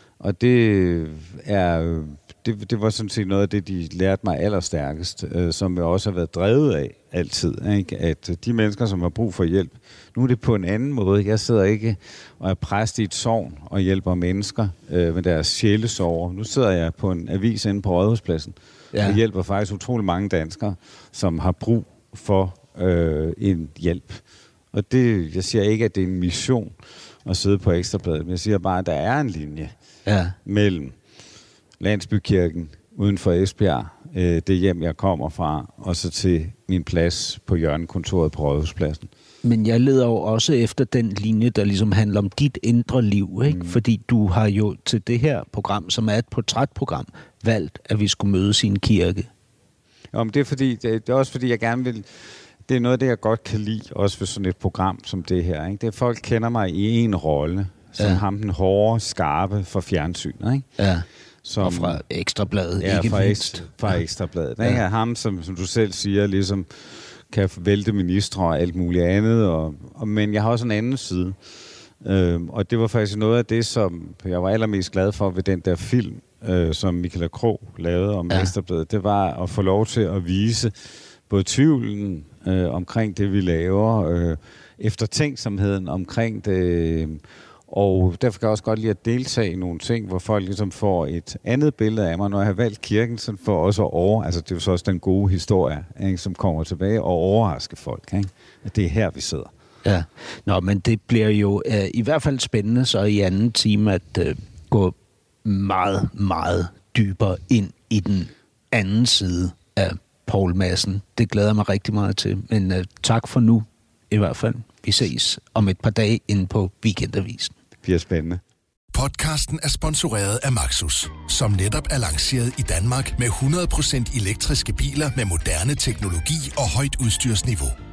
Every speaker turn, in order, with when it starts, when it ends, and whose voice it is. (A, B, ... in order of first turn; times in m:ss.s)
0:00.2-0:29.7 A
0:18.9-0:19.2 B
0:30.0-0:30.4 B
0:30.4-0:31.0 A
0:31.8-0:39.1 A
0:39.4-0:49.3 B
0:43.5-0:43.8 A
0:50.1-1:00.7 A
0:58.0-0:58.2 B
1:00.8-1:01.0 B
1:01.4-1:02.0 A
1:01.6-1:04.0 B
1:02.8-1:11.4 A
1:12.0-1:39.5 A
1:39.8-1:57.5 B
1:57.8-1:58.4 A
1:58.9-2:07.8 C